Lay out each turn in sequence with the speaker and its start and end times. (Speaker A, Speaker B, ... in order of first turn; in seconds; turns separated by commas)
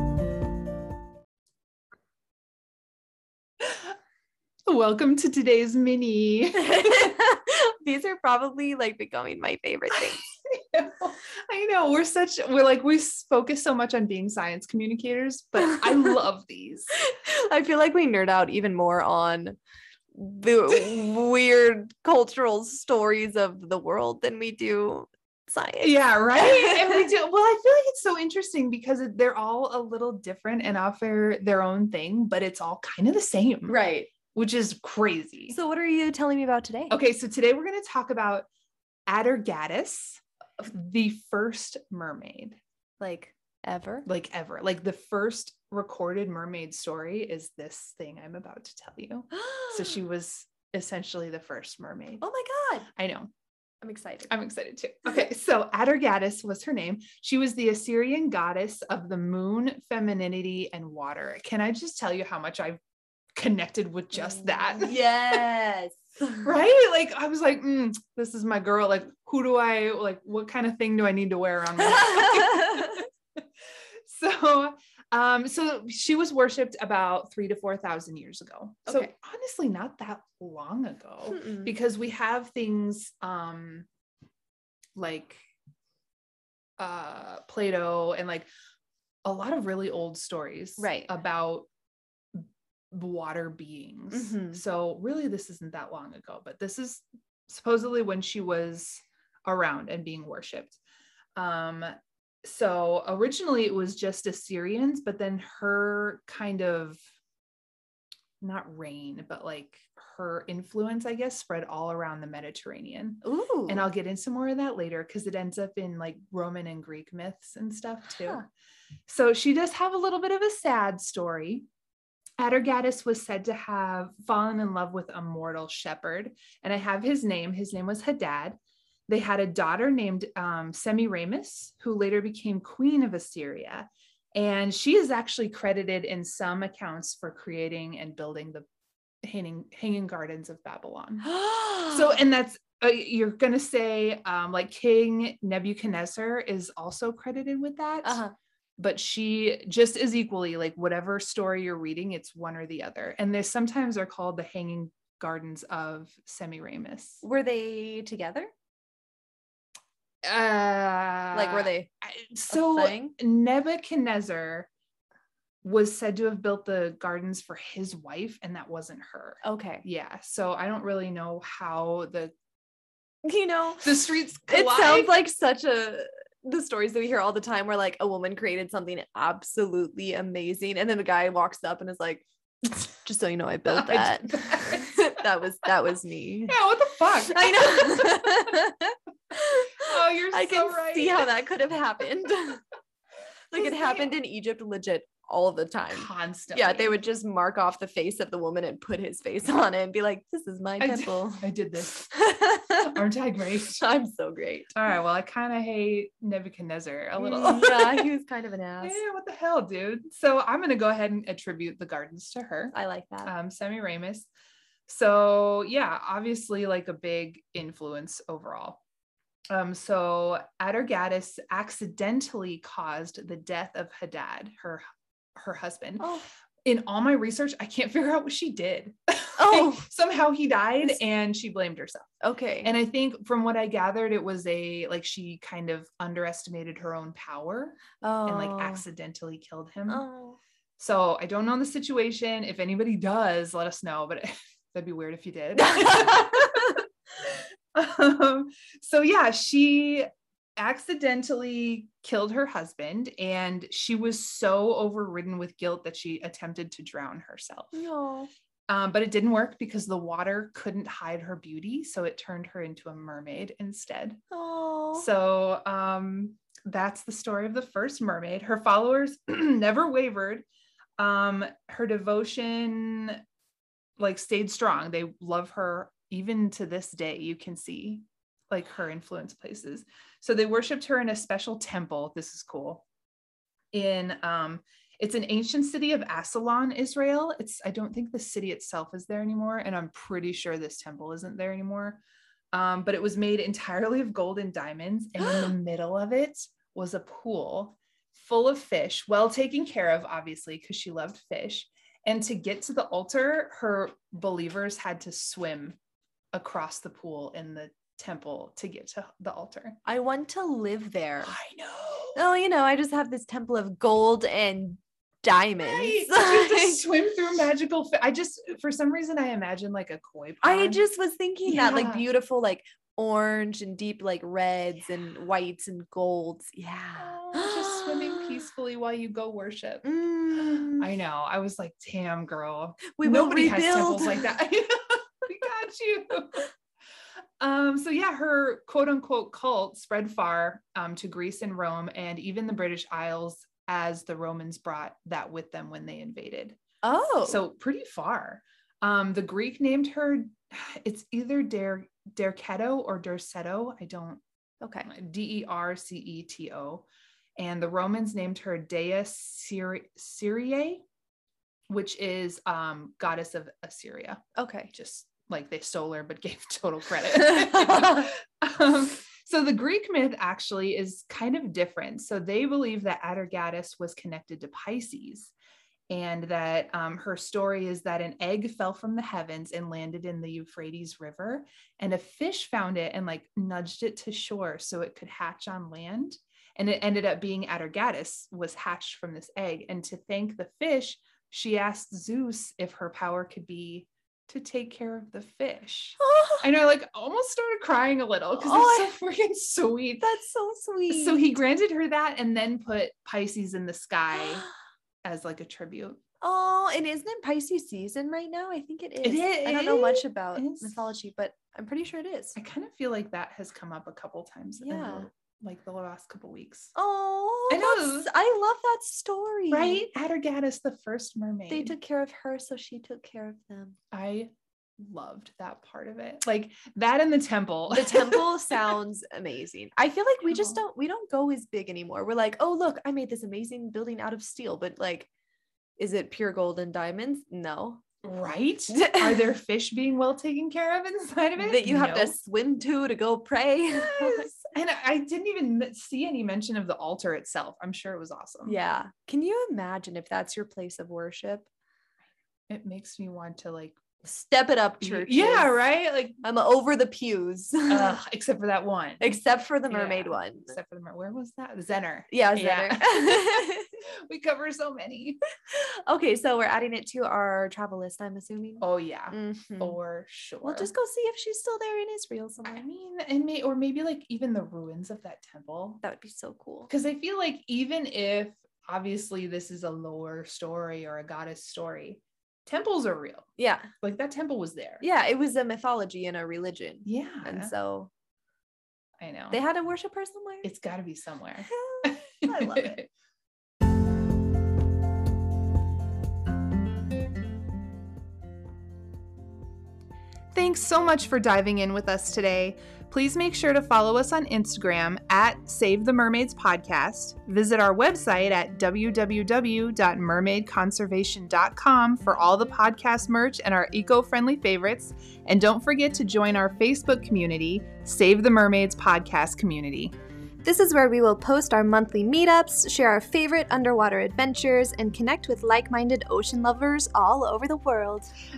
Speaker A: 4.7-7.2, Speaker B: 6.5-10.2, Speaker A: 9.9-16.9, Speaker B: 15.7-15.9, Speaker B: 17.0-19.6, Speaker B: 20.1-27.1, Speaker A: 25.8-33.8, Speaker B: 33.7-34.1, Speaker A: 34.3-35.6, Speaker B: 35.5-37.0, Speaker A: 36.9-38.5, Speaker A: 39.1-42.6, Speaker B: 43.0-44.1, Speaker A: 44.1-52.2, Speaker B: 49.3-50.0, Speaker B: 52.2-52.9, Speaker A: 52.9-53.3, Speaker B: 53.8-54.3, Speaker A: 54.3-62.8, Speaker A: 63.4-65.5, Speaker B: 64.1-66.7, Speaker A: 66.4-73.0, Speaker B: 71.8-73.0, Speaker A: 74.0-83.9, Speaker B: 78.8-79.1, Speaker B: 81.3-81.7, Speaker A: 85.0-85.4, Speaker A: 86.8-88.5, Speaker A: 89.2-91.7, Speaker B: 90.8-91.1, Speaker A: 92.9-100.8, Speaker B: 94.1-94.6, Speaker A: 101.3-101.9, Speaker A: 102.4-107.0, Speaker A: 108.4-118.4, Speaker B: 113.2-113.9, Speaker B: 118.1-118.4, Speaker A: 119.1-121.7, Speaker A: 122.4-138.7, Speaker A: 139.2-141.3, Speaker B: 141.2-142.2, Speaker A: 141.9-148.2, Speaker B: 148.0-148.3, Speaker A: 148.8-157.2, Speaker B: 157.2-158.5, Speaker A: 160.2-164.7, Speaker B: 161.3-161.9, Speaker B: 162.5-163.2, Speaker A: 165.6-172.3, Speaker B: 169.4-169.8, Speaker B: 173.2-186.6, Speaker A: 173.8-175.2, Speaker A: 183.7-184.9, Speaker A: 186.5-188.5, Speaker B: 187.2-192.6, Speaker A: 189.8-191.3, Speaker B: 193.5-202.8, Speaker A: 193.5-194.1, Speaker A: 195.9-197.0, Speaker A: 200.8-202.1, Speaker A: 202.7-203.8, Speaker B: 203.7-204.7, Speaker A: 204.7-208.1, Speaker B: 207.2-209.0, Speaker A: 208.8-212.7, Speaker B: 212.7-213.3, Speaker A: 213.2-214.3, Speaker A: 214.9-218.8, Speaker A: 219.5-224.8, Speaker A: 225.3-232.1, Speaker B: 226.0-226.3, Speaker B: 229.4-229.9, Speaker B: 232.2-232.7, Speaker A: 232.6-240.0, Speaker B: 238.0-238.8, Speaker B: 239.9-240.4, Speaker A: 240.8-246.8, Speaker B: 245.6-246.8, Speaker A: 247.7-257.8, Speaker B: 257.7-258.3, Speaker A: 258.7-264.2, Speaker B: 264.3-265.1, Speaker A: 264.9-270.4, Speaker A: 271.0-273.2, Speaker A: 274.0-282.9, Speaker A: 283.7-305.8, Speaker B: 295.2-295.5, Speaker A: 306.3-309.8, Speaker B: 309.9-311.3, Speaker A: 311.2-312.2, Speaker B: 312.1-316.9, Speaker A: 315.6-320.8, Speaker B: 320.4-328.4, Speaker A: 321.4-322.1, Speaker A: 327.0-329.8, Speaker B: 329.8-330.9, Speaker A: 330.4-336.5, Speaker B: 332.9-334.4, Speaker A: 337.4-346.6, Speaker B: 346.8-347.4, Speaker A: 347.2-354.2, Speaker B: 354.6-354.9, Speaker A: 354.8-356.9, Speaker A: 357.4-360.8, Speaker A: 361.7-375.3, Speaker B: 364.4-364.7, Speaker A: 375.9-400.1, Speaker B: 396.0-396.5, Speaker B: 398.4-398.9, Speaker B: 400.0-401.4, Speaker A: 400.9-404.4, Speaker A: 405.0-406.0, Speaker B: 406.2-412.4, Speaker A: 409.0-410.9, Speaker A: 412.4-416.7, Speaker B: 414.6-415.1, Speaker B: 416.8-419.9, Speaker A: 417.5-418.1, Speaker A: 419.5-421.8, Speaker B: 421.5-423.8, Speaker A: 423.9-428.8, Speaker B: 427.7-435.1, Speaker A: 430.2-430.6, Speaker B: 435.8-437.8, Speaker A: 438.0-442.2, Speaker B: 438.7-439.3, Speaker B: 441.4-444.3, Speaker A: 443.7-448.6, Speaker B: 448.4-451.5, Speaker A: 452.5-453.8, Speaker B: 454.0-455.5, Speaker A: 454.8-456.2, Speaker B: 456.2-458.0, Speaker A: 457.7-465.2, Speaker B: 459.0-460.6, Speaker B: 462.1-463.7, Speaker B: 465.5-469.8, Speaker A: 468.6-470.7, Speaker B: 470.4-472.6, Speaker A: 472.5-475.8, Speaker B: 475.8-476.7, Speaker A: 476.7-483.3, Speaker B: 483.4-483.7, Speaker A: 483.8-484.8, Speaker B: 484.8-487.9, Speaker A: 486.9-487.5, Speaker A: 489.0-489.4, Speaker B: 489.3-490.5, Speaker A: 490.4-492.9, Speaker B: 491.4-492.8, Speaker A: 500.3-519.9, Speaker B: 520.4-528.1